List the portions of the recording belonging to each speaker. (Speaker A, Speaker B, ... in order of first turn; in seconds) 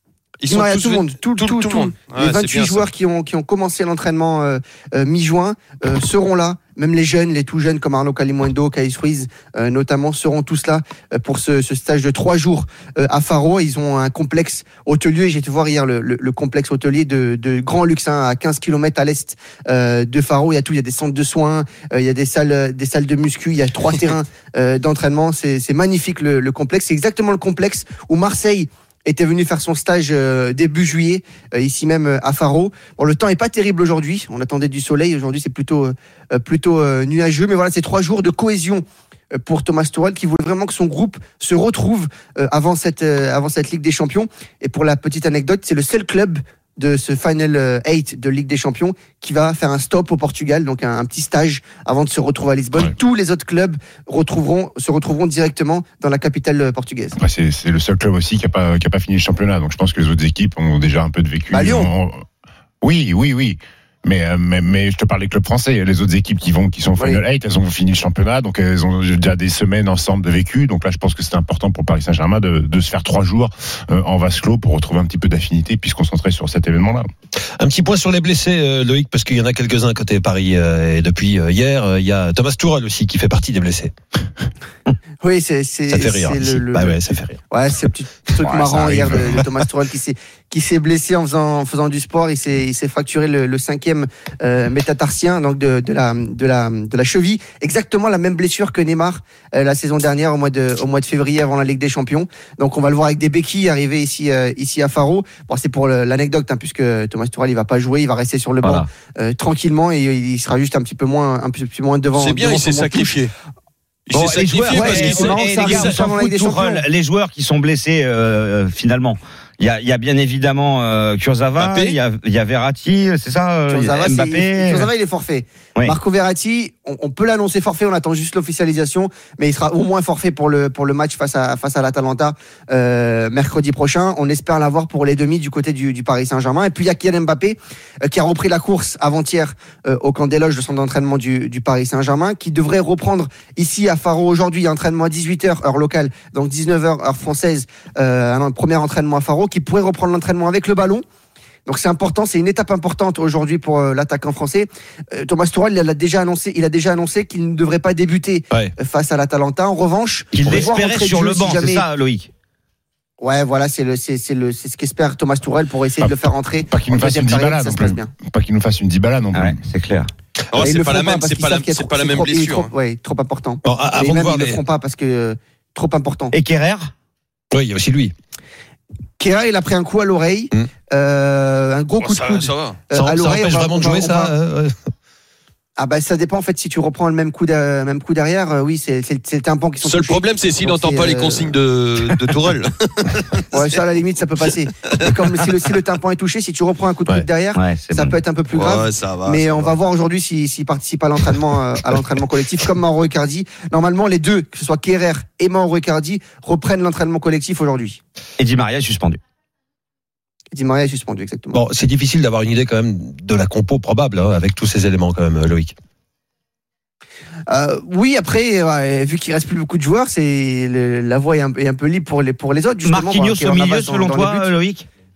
Speaker A: 0.4-2.9, 112.2-113.3, 114.1-116.0, 121.6-122.0, 170.5-172.7, 182.0-182.8, 189.8-193.8, 198.5-199.7
Speaker B: 0.5-57.2, 61.5-61.9, 85.2-87.0, 87.5-113.1, 114.6-116.8, 123.7-151.0, 151.7-161.8, 163.2-168.1, 170.6-176.3, 179.2-184.3, 185.8-191.6, 193.5-208.0, 210.5-211.6, 217.5-224.5
Speaker C: 57.1-62.2, 62.8-77.1, 88.6-89.4, 166.7-169.6
Speaker D: 77.6-83.9, 85.9-87.4, 173.6-174.6, 177.5-178.1, 182.9-184.7, 211.5-215.7
Speaker E: 108.6-108.9, 114.1-124.9, 160.3-162.3, 169.3-170.1, 176.3-176.9, 197.5-198.2, 208.4-209.2, 222.8-224.8